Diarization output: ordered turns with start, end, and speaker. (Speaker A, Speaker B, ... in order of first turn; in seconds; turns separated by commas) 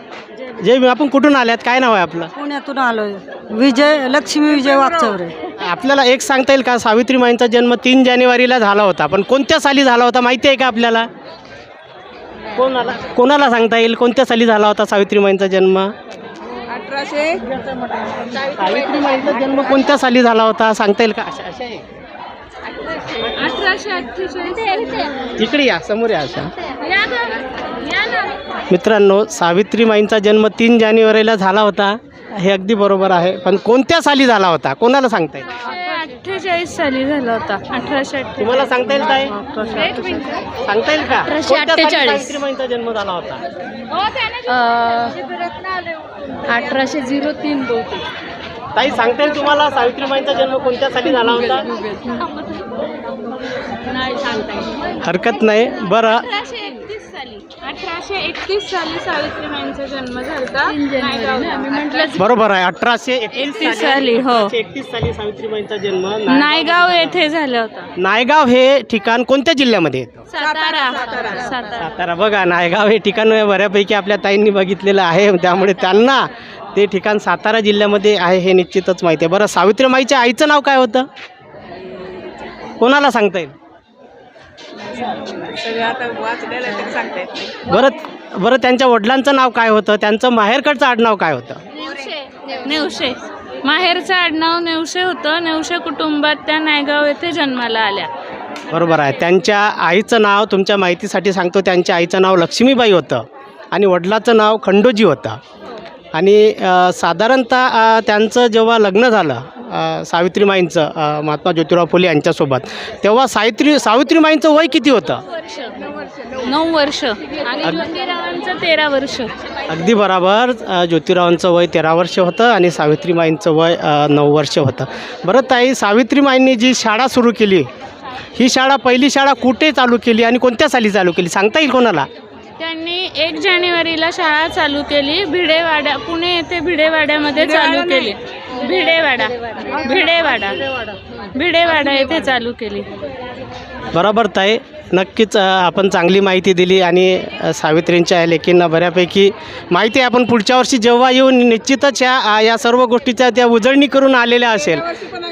Speaker A: 0.5-2.3, Speaker B: 2.4-5.3, Speaker A: 5.6-11.1, Speaker A: 12.5-15.9, Speaker C: 16.8-17.4, Speaker A: 18.4-21.9, Speaker C: 23.3-25.2, Speaker A: 25.4-26.5, Speaker C: 26.8-28.4, Speaker A: 28.7-35.6, Speaker C: 35.6-40.5, Speaker A: 38.4-39.4, Speaker A: 40.6-43.4, Speaker C: 41.3-42.2, Speaker C: 43.9-45.5, Speaker C: 46.4-48.0, Speaker A: 48.7-51.7, Speaker C: 51.9-52.3, Speaker C: 53.9-54.9, Speaker A: 55.0-56.4, Speaker C: 56.4-62.3, Speaker A: 62.1-67.3, Speaker C: 63.4-64.5, Speaker C: 66.3-67.9, Speaker A: 68.0-70.3, Speaker C: 70.3-71.9, Speaker A: 71.8-81.1, Speaker A: 82.8-83.5, Speaker C: 85.6-87.5, Speaker A: 87.6-91.6, Speaker C: 91.8-98.1, Speaker A: 98.7-105.4, Speaker A: 106.1-115.2, Speaker C: 115.4-119.3, Speaker A: 117.6-117.9, Speaker A: 119.7-127.7, Speaker A: 128.4-132.1, Speaker C: 132.6-143.0, Speaker A: 143.9-154.9